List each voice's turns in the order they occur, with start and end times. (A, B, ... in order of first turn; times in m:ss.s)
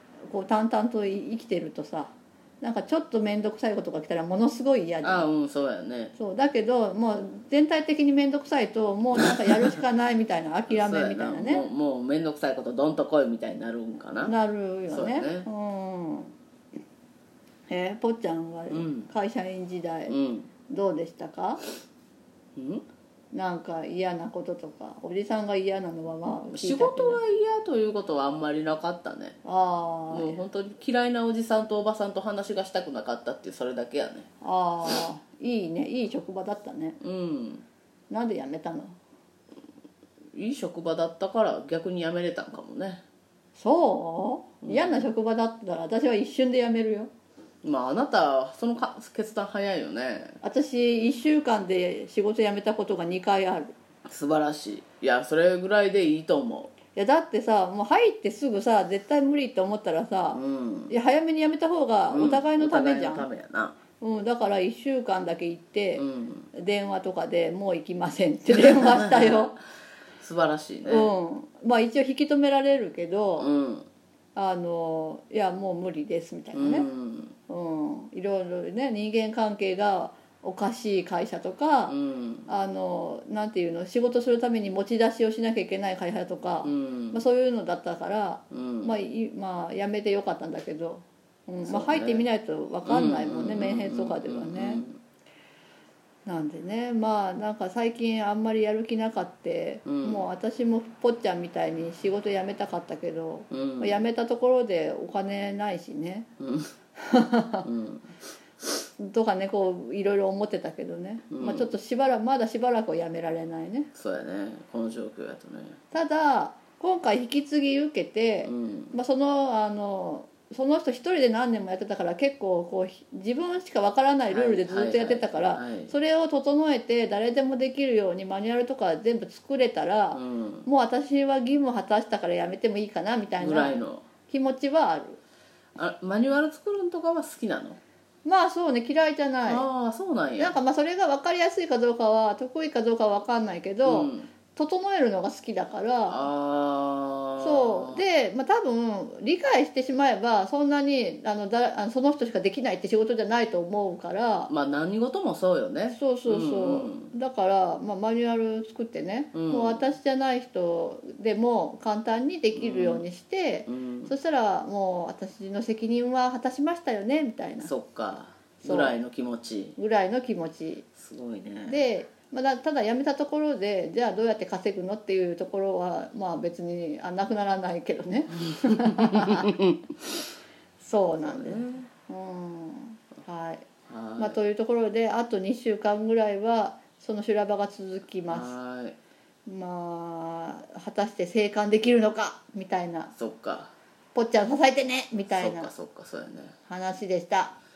0:00.3-0:05.2 A
0:05.0-0:06.1 B
0:06.2-0:11.7 A
0:10.7-0:14.3 B
0:14.2-0:16.3 A
0:14.9-0:15.5 B
0:17.7-0:20.1 A
0:18.7-0:19.1 B
0:20.1-0:20.5 B
0:20.7-0:21.6 A
0:22.6-0:22.8 B
0:23.3-0:27.2 A
0:26.5-0:29.4 B
0:29.4-0:30.4 A
0:30.1-0:34.3 B
0:34.4-0:37.0 A
0:37.0-0:37.6 B
0:38.1-0:38.9 A
0:40.3-0:43.0 B
0:43.6-0:47.1 A
0:44.6-0:45.0 B
0:47.6-0:50.4 B
0:50.4-0:53.7 A
0:54.0-0:56.7 B
0:56.9-1:03.3 A
1:00.3-1:00.9 B
1:02.1-1:03.8 B
1:04.0-1:09.5 A
1:06.0-1:06.5 B
1:08.5-1:09.6 B
1:10.2-1:11.1 B
1:10.8-1:13.5 A
1:13.4-1:13.9 B
1:14.3-1:16.9 A
1:16.5-1:17.3 B
1:17.5-1:22.0 A
1:21.9-1:22.5 B
1:22.5-1:34.8 A
1:26.6-1:27.2 B
1:28.5-1:28.9 B
1:31.6-1:32.3 B
1:32.8-1:35.0 B
1:36.2-1:46.3 A
1:39.8-1:40.2 B
1:43.5-1:44.0 B
1:46.4-1:46.7 B
1:47.0-1:47.6 A
1:47.6-1:48.1 B
1:49.0-1:53.9 A
1:51.3-1:51.7 B
1:53.9-1:55.8 B
1:55.9-2:15.2 A
1:58.4-1:58.9 B
2:04.3-2:05.9 B
2:10.1-2:10.6 B
2:13.4-2:14.1 B
2:15.8-2:17.8 B
2:18.2-2:19.6 A
2:19.5-2:20.6 B
2:20.4-2:26.3 A
2:23.8-2:24.3 B
2:26.1-2:28.0 B
2:27.4-2:34.5 A
2:34.5-2:37.1 B
2:35.9-2:47.7 A
2:39.3-2:39.8 B
2:42.5-2:43.0 B
2:43.7-2:44.1 B
2:47.6-2:49.8 B
2:48.6-2:49.0 A
2:49.8-2:50.9 A
2:51.0-2:51.8 B
2:51.7-2:59.5 A
2:59.0-2:59.8 B
3:00.8-3:03.7 A
3:01.2-3:01.9 B
3:03.9-3:04.4 B
3:04.2-3:08.6 A
3:08.3-3:09.0 B
3:09.4-3:13.1 A
3:13.1-3:13.7 B
3:14.1-3:15.7 A
3:15.3-3:16.5 B
3:16.6-3:17.5 A